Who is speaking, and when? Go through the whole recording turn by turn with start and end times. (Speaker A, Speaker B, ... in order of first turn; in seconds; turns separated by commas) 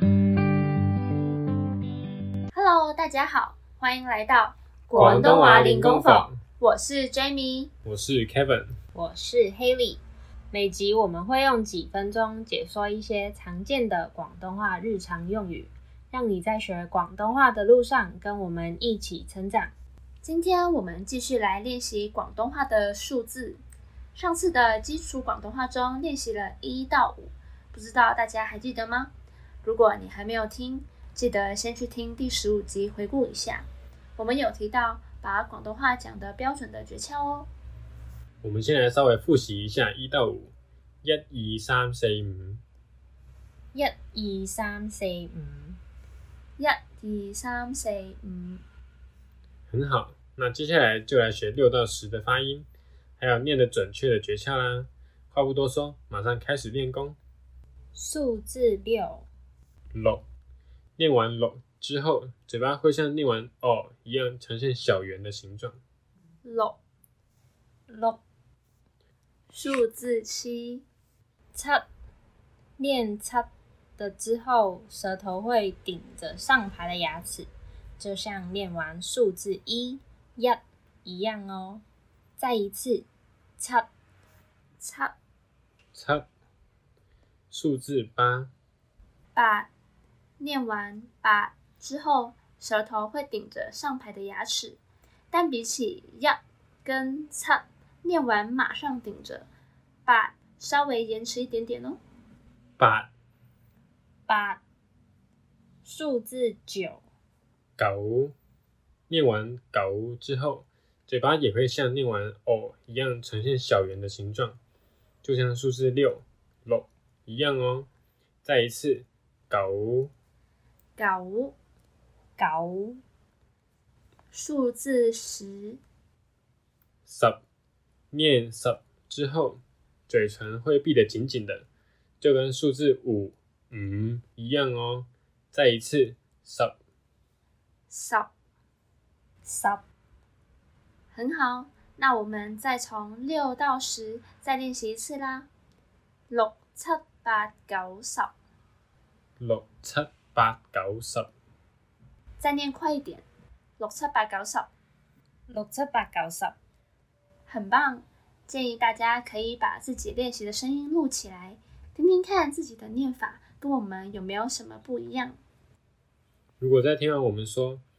Speaker A: 2.5-7.7, Speaker B: 4.9-6.4, Speaker B: 7.8-8.8, Speaker C: 8.9-10.0, Speaker C: 10.5-19.7, Speaker A: 20.2-23.6, Speaker A: 24.1-29.1, Speaker A: 29.6-37.5, Speaker B: 38.4-42.6, Speaker C: 43.7-45.8, Speaker A: 46.6-48.6, Speaker B: 49.7-52.7, Speaker B: 53.2-57.2, Speaker C: 57.9-59.3, Speaker B: 59.9-60.2, Speaker B: 61.0-65.8, Speaker A: 66.4-66.8, Speaker C: 67.9-68.2, Speaker A: 69.5-70.8, Speaker C: 71.5-71.8, Speaker C: 72.8-73.5, Speaker C: 74.0-81.8, Speaker C: 82.4-83.1, Speaker C: 83.6-83.9, Speaker A: 84.8-85.1, Speaker B: 85.9-86.3, Speaker B: 87.5-88.5, Speaker A: 89.3-89.7, Speaker A: 90.4-94.8, Speaker A: 95.3-99.5, Speaker A: 100.0-102.0, Speaker B: 102.8-103.1, Speaker C: 104.3-104.6, Speaker C: 105.8-107.0, Speaker B: 107.8-108.3, Speaker B: 109.1-114.6, Speaker B: 115.2-117.9, Speaker B: 118.4-120.1, Speaker A: 121.0-121.5, Speaker C: 122.4-123.0, Speaker A: 124.3-125.8, Speaker B: 127.0-127.4, Speaker B: 128.1-131.7, Speaker B: 132.2-136.7, Speaker A: 137.9-138.3, Speaker C: 139.4-139.8, Speaker A: 141.1-145.5, Speaker A: 146.3-148.3, Speaker B: 149.4-151.3, Speaker A: 152.4-153.2, Speaker A: 153.8-154.7, Speaker C: 155.5-156.5, Speaker A: 157.5-165.4, Speaker B: 166.6-167.8